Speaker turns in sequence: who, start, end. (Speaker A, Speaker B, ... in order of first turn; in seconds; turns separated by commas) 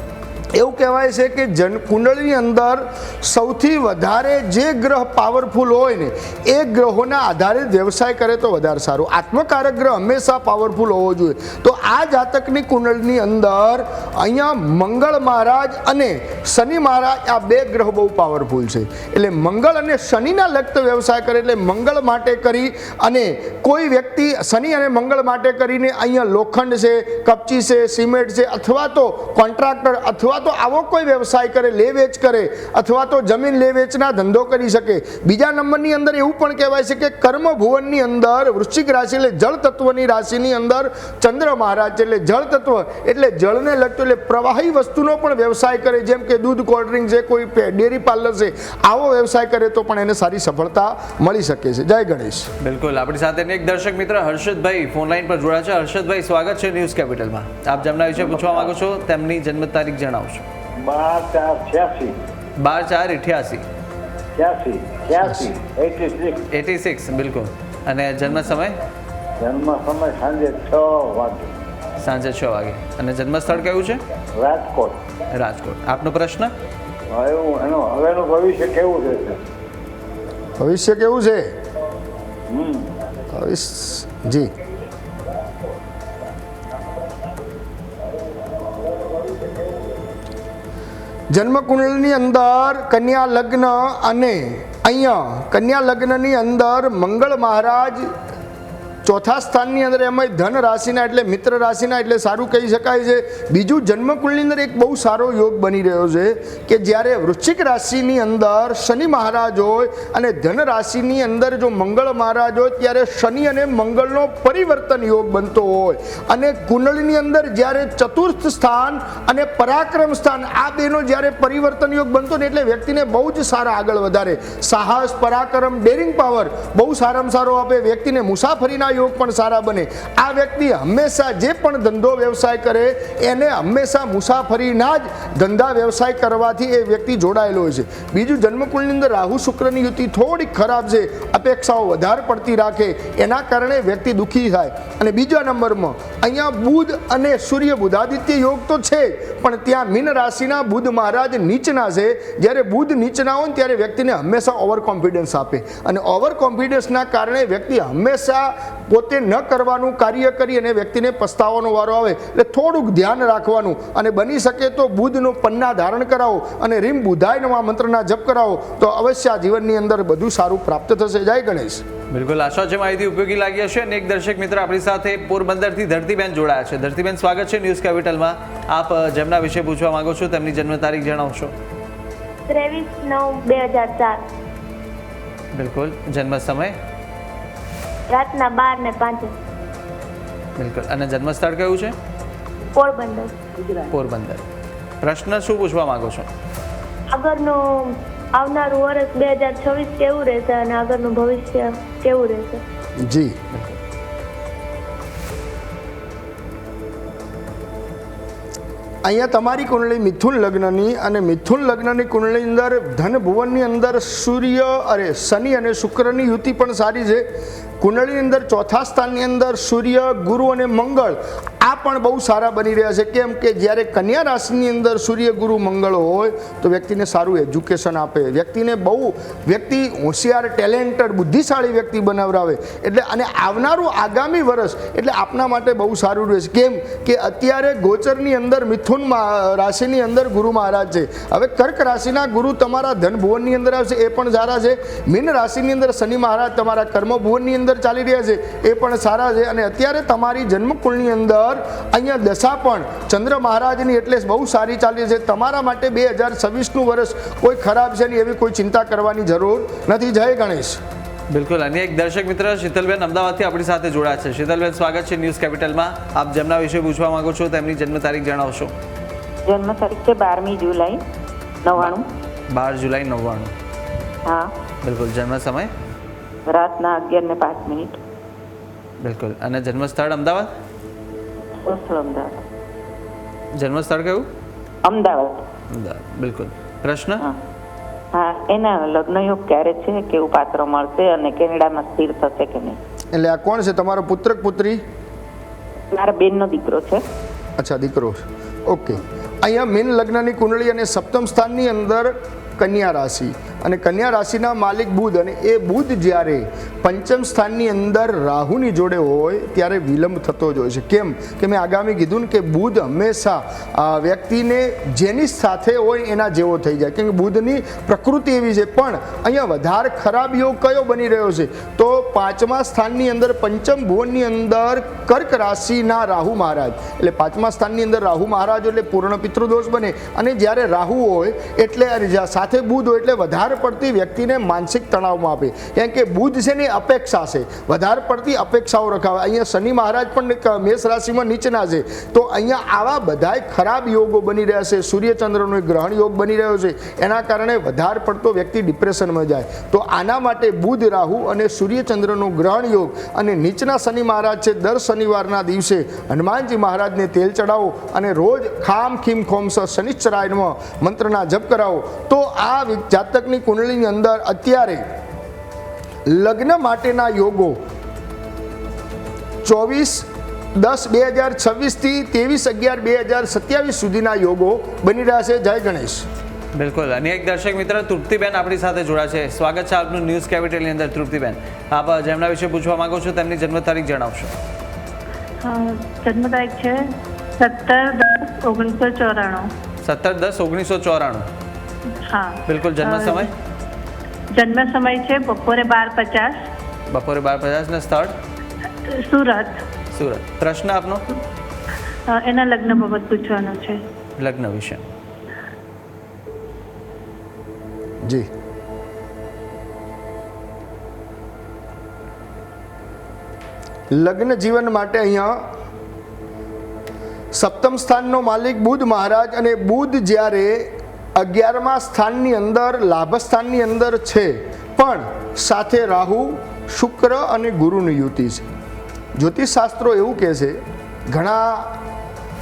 Speaker A: 0.6-52.5, Speaker B: 52.6-60.5, Speaker C: 58.2-58.7, Speaker C: 60.8-62.1, Speaker B: 62.6-63.6, Speaker C: 64.3-66.4, Speaker B: 66.5-68.8, Speaker C: 69.4-71.5, Speaker B: 72.0-74.0, Speaker C: 74.3-75.0, Speaker B: 75.3-76.5, Speaker C: 77.1-79.4, Speaker A: 80.6-81.5, Speaker C: 82.5-82.9, Speaker A: 83.3-84.5, Speaker A: 91.3-98.1, Speaker A: 99.0-171.8, Speaker B: 172.1-181.5, Speaker D: 182.5-184.2, Speaker B: 185.5-186.8, Speaker D: 188.1-189.3, Speaker B: 190.6-191.9, Speaker D: 192.7-193.3, Speaker B: 193.9-194.4, Speaker B: 195.0-196.3, Speaker D: 197.1-202.6, Speaker A: 203.0-203.4, Speaker B: 203.5-203.8, Speaker A: 209.0-217.3, Speaker A: 217.8-260.8, Speaker B: 261.3-268.7, Speaker E: 269.5-271.0, Speaker E: 271.6-272.1, Speaker B: 272.5-273.5, Speaker E: 274.3-274.5, Speaker B: 274.8-275.7, Speaker E: 276.5-278.0, Speaker B: 279.0-280.5, Speaker E: 281.7-282.4, Speaker B: 283.6-284.3, Speaker E: 284.9-285.4, Speaker B: 285.7-287.2, Speaker E: 288.1-292.8, Speaker A: 293.1-294.8, Speaker E: 295.9-297.0, Speaker A: 297.6-364.9, Speaker A: 366.1-367.6, Speaker A: 369.4-376.1, Speaker B: 376.6-384.3, Speaker F: 385.4-389.5, Speaker B: 389.8-391.3, Speaker F: 392.1-393.3, Speaker B: 392.5-393.3, Speaker F: 394.3-396.4, Speaker B: 396.9-398.1, Speaker F: 398.9-399.6, Speaker B: 399.9-401.0, Speaker F: 402.1-403.8, Speaker B: 404.2-404.8, Speaker A: 413.9-415.4, Speaker A: 417.3-428.5, Speaker A: 429.2-431.8